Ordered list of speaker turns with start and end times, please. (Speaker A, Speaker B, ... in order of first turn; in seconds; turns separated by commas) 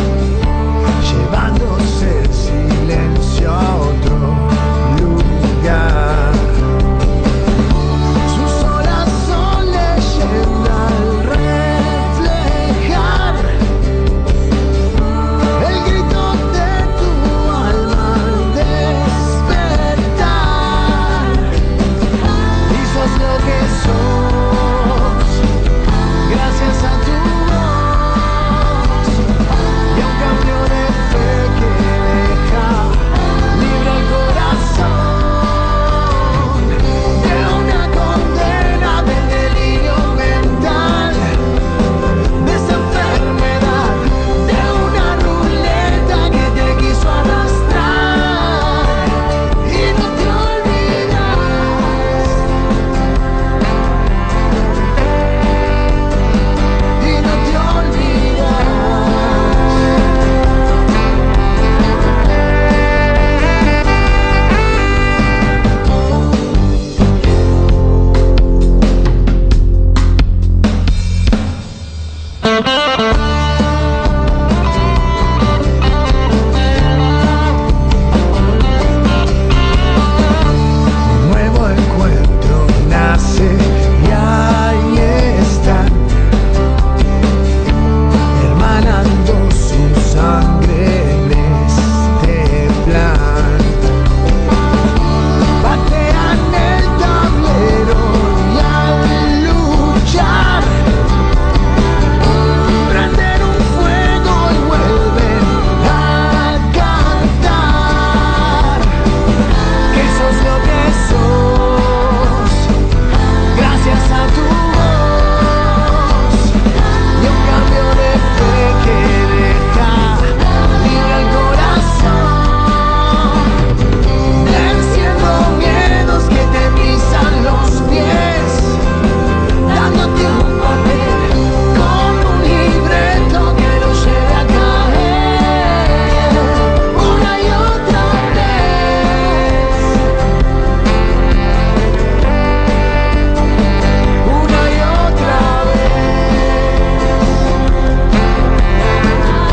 Speaker A: 1.0-6.5, Speaker A: 8.2-13.6, Speaker A: 15.5-21.5, Speaker A: 22.7-25.4, Speaker A: 26.2-29.2, Speaker A: 29.9-41.4, Speaker A: 42.4-52.4, Speaker A: 57.0-60.0, Speaker A: 81.0-86.1, Speaker A: 88.3-93.8, Speaker A: 95.6-100.8, Speaker A: 102.5-108.9, Speaker A: 109.9-112.7, Speaker A: 113.5-116.6, Speaker A: 117.2-123.6, Speaker A: 124.3-128.8, Speaker A: 129.7-139.9, Speaker A: 144.2-147.2